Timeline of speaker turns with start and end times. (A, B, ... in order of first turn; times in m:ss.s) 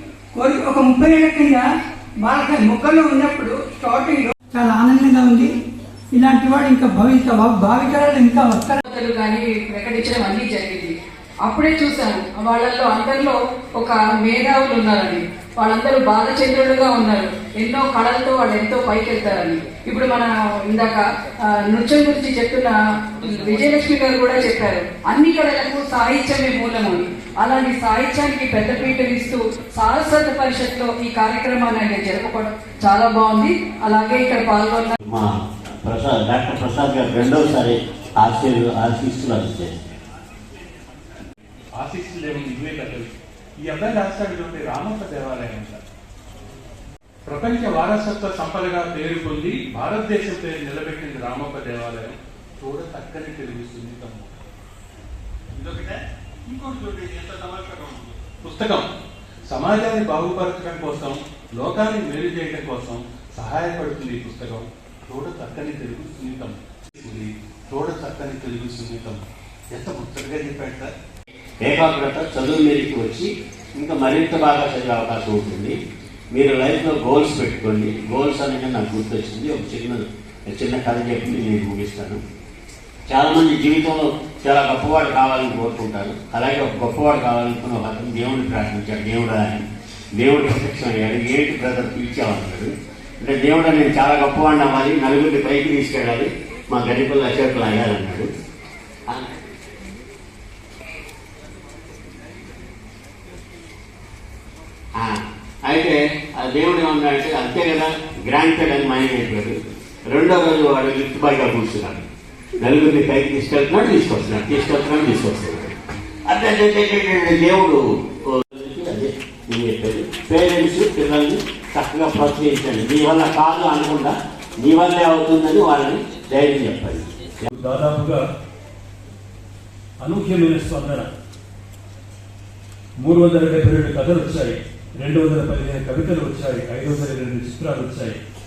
0:00.3-0:01.6 A
0:02.2-0:05.5 A
0:06.1-0:08.8 A
0:08.8-0:34.9 B
0:35.0-0:39.7 C
0:41.8-0:43.1 D
0:43.6-0:45.8 D
0:47.2-0:54.3 D
0:55.6-0:55.9 D
0:56.5-0:58.8 D
0:59.5-1:09.2 D
1:09.7-1:10.9 D
1:11.6-1:15.8 C
1:16.3-1:22.2 C
1:23.1-1:29.6 C
1:30.2-1:38.3 C
1:45.0-1:52.0 C
1:52.6-1:55.7 C
1:56.2-2:07.5 C
2:07.5-2:08.2 E
2:10.0-2:11.1 E
2:13.0-2:18.2 E